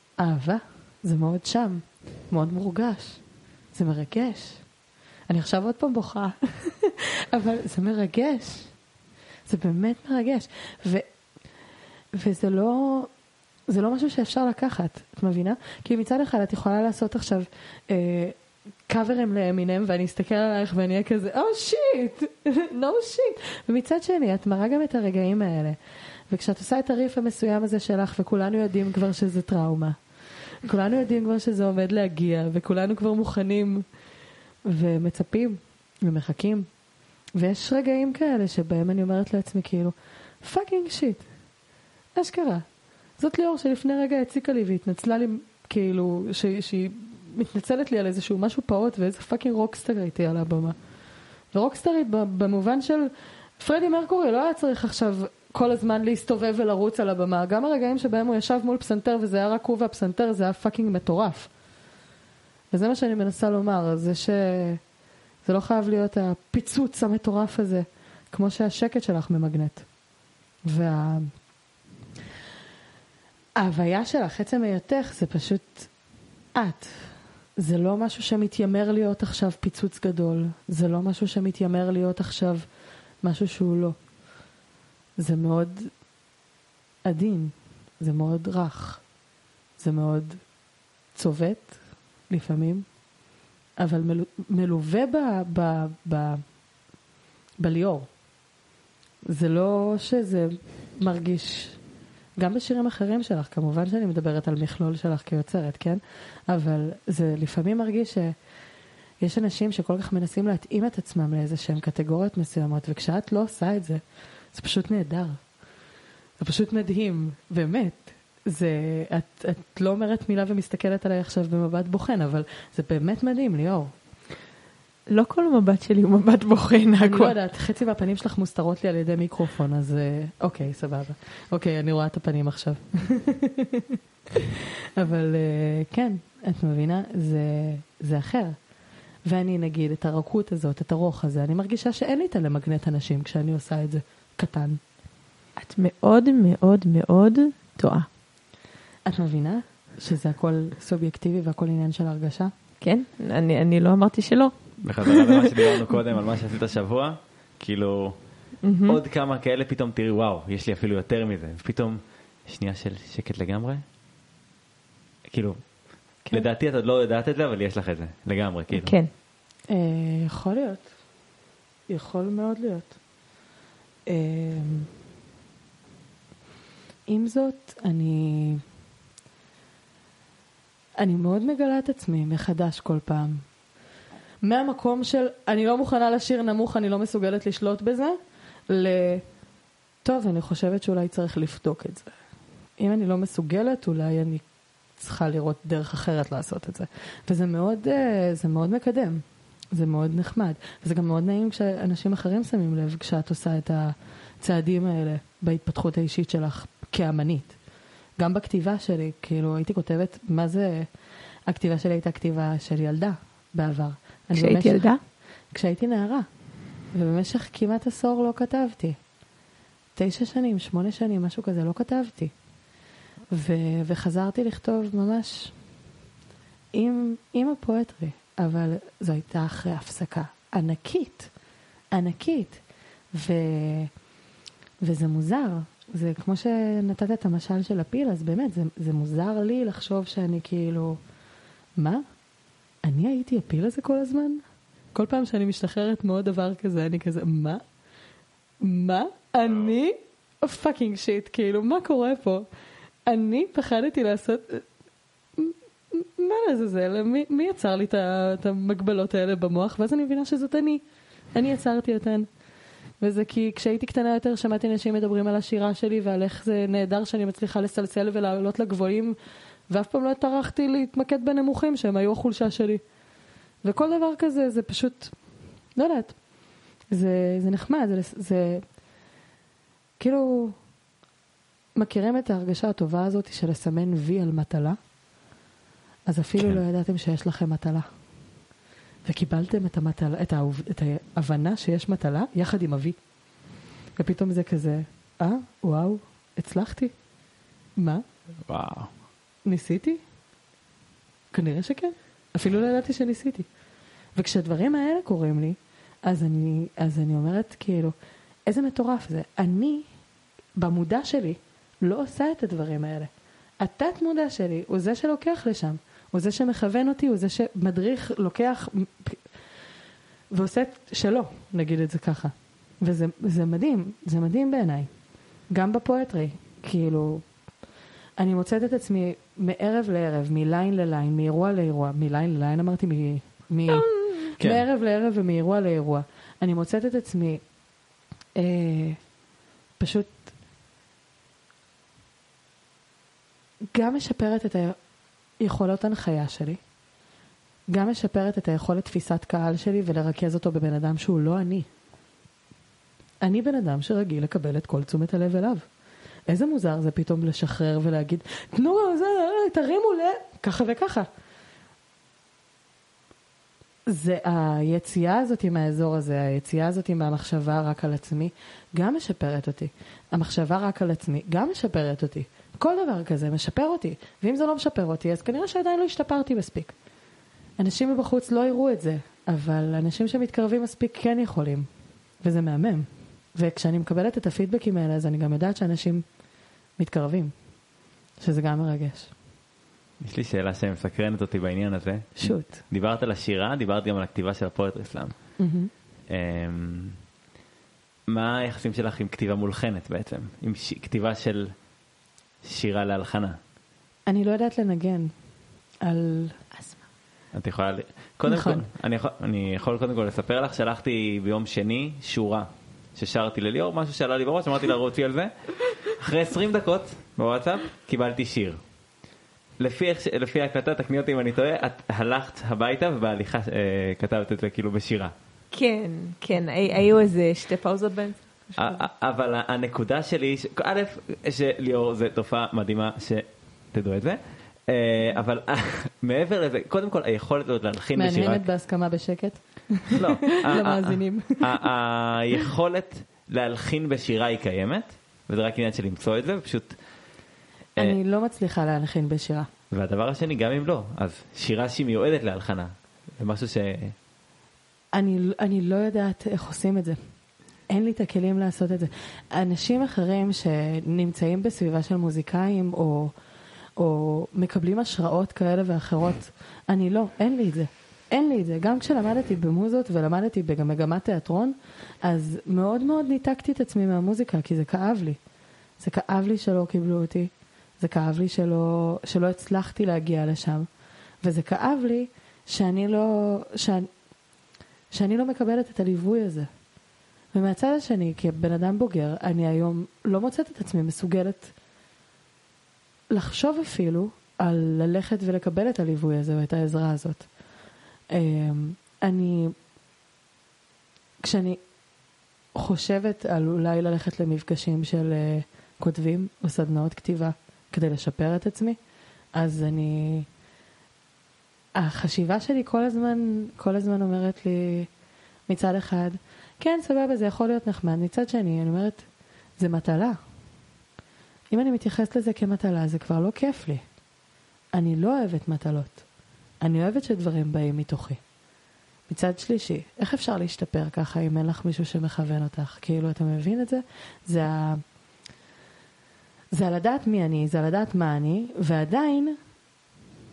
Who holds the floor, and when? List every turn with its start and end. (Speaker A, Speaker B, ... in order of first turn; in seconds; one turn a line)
Speaker A: 0.2-3.2
Speaker A: 3.7-4.6
Speaker A: 5.3-8.7
Speaker A: 9.5-11.1
Speaker A: 12.1-13.1
Speaker A: 13.7-18.4
Speaker A: 18.9-25.8
Speaker A: 26.3-30.0
Speaker A: 30.6-33.9
Speaker A: 34.7-36.7
Speaker A: 37.4-41.3
Speaker A: 42.2-42.6
Speaker A: 43.2-50.8
Speaker A: 51.5-61.5
Speaker A: 62.7-64.8
Speaker A: 65.5-69.8
Speaker A: 70.7-71.3
Speaker A: 73.6-75.9
Speaker A: 76.6-82.6
Speaker A: 83.2-84.0
Speaker A: 85.2-85.9
Speaker A: 87.0-89.0
Speaker A: 89.8-90.4
Speaker A: 91.1-91.8
Speaker A: 92.3-92.9
Speaker A: 93.8-96.4
Speaker A: 97.6-98.1
Speaker A: 99.3-101.8
Speaker A: 102.4-108.3
Speaker A: 109.2-114.0
Speaker A: 114.5-115.4
Speaker A: 116.4-123.9
Speaker B: 125.1-127.3
Speaker A: 127.0-133.8
Speaker A: 134.9-138.6
Speaker A: 139.3-144.8
Speaker B: 145.6-148.1
Speaker A: 149.1-152.5
Speaker B: 152.8-154.5
Speaker C: 154.8-158.2
Speaker B: 155.1-155.7
Speaker B: 158.6-159.0
Speaker C: 158.8-163.8
Speaker C: 165.2-165.6
Speaker C: 166.3-169.0
Speaker B: 168.7-169.1
Speaker A: 169.7-170.9
Speaker A: 171.9-172.9
Speaker A: 174.1-174.9
Speaker A: 177.1-178.6
Speaker A: 181.0-183.4
Speaker A: 184.4-188.2
Speaker A: 188.7-189.2
Speaker A: 190.0-192.1
Speaker A: 192.8-194.4
Speaker A: 195.0-199.2
Speaker A: 199.7-207.6
Speaker A: 208.2-210.9
Speaker A: 211.5-214.9
Speaker B: 214.4-215.0
Speaker A: 215.5-216.3
Speaker A: 216.9-219.0
Speaker A: 219.9-222.3
Speaker A: 223.3-225.5
Speaker A: 226.7-231.3
Speaker A: 231.9-232.6
Speaker A: 233.1-233.9
Speaker A: 234.8-241.0
Speaker A: 241.8-242.0
Speaker A: 242.8-244.4
Speaker A: 244.9-247.6
Speaker A: 248.6-252.4
Speaker A: 253.1-254.7
Speaker A: 255.4-260.8
Speaker A: 261.3-262.3
Speaker A: 263.0-269.1
Speaker A: 269.7-272.8
Speaker A: 273.6-275.1
Speaker A: 275.8-276.2
Speaker A: 276.9-278.6
Speaker A: 280.0-280.6
Speaker A: 281.8-284.8
Speaker A: 286.1-287.9
Speaker A: 289.1-293.0
Speaker A: 293.9-296.9
Speaker A: 297.8-298.0
Speaker C: 298.4-298.9
Speaker A: 299.4-300.0
Speaker A: 301.3-303.5
Speaker A: 304.1-307.9
Speaker A: 308.5-309.9
Speaker A: 310.6-319.2
Speaker A: 320.3-324.9
Speaker A: 325.5-327.3
Speaker A: 328.2-337.4
Speaker B: 333.7-334.3
Speaker A: 338.4-339.0
Speaker A: 339.8-340.3
Speaker A: 343.7-344.8
Speaker A: 345.4-346.6
Speaker A: 347.7-351.7
Speaker A: 353.2-355.6
Speaker A: 356.3-361.1
Speaker A: 363.9-376.7
Speaker A: 377.6-381.7
Speaker A: 382.2-386.0
Speaker A: 386.8-387.3
Speaker A: 388.2-389.1
Speaker C: 390.0-395.1
Speaker A: 392.2-392.6
Speaker A: 395.4-395.7
Speaker C: 396.1-397.0
Speaker C: 398.1-401.5
Speaker C: 402.4-403.4
Speaker A: 404.1-405.1
Speaker A: 405.8-406.4
Speaker C: 407.3-418.6
Speaker A: 408.3-408.6
Speaker C: 419.6-425.1
Speaker B: 425.5-428.8
Speaker C: 428.6-438.4
Speaker A: 437.9-441.4
Speaker C: 439.9-446.8
Speaker A: 447.8-449.5
Speaker C: 449.7-453.9
Speaker A: 454.9-457.0
Speaker A: 457.7-463.1
Speaker A: 463.8-475.2
Speaker A: 475.8-480.7
Speaker A: 481.2-483.9
Speaker A: 484.9-486.5
Speaker A: 487.3-491.5
Speaker A: 493.1-497.3
Speaker A: 498.1-499.5
Speaker A: 501.2-501.6
Speaker A: 502.6-508.8
Speaker A: 509.4-510.3
Speaker A: 511.8-514.9
Speaker A: 515.5-519.0
Speaker A: 519.6-520.2
Speaker A: 521.5-523.8
Speaker A: 524.7-526.0
Speaker A: 526.6-528.2
Speaker A: 529.1-534.8
Speaker A: 536.5-539.4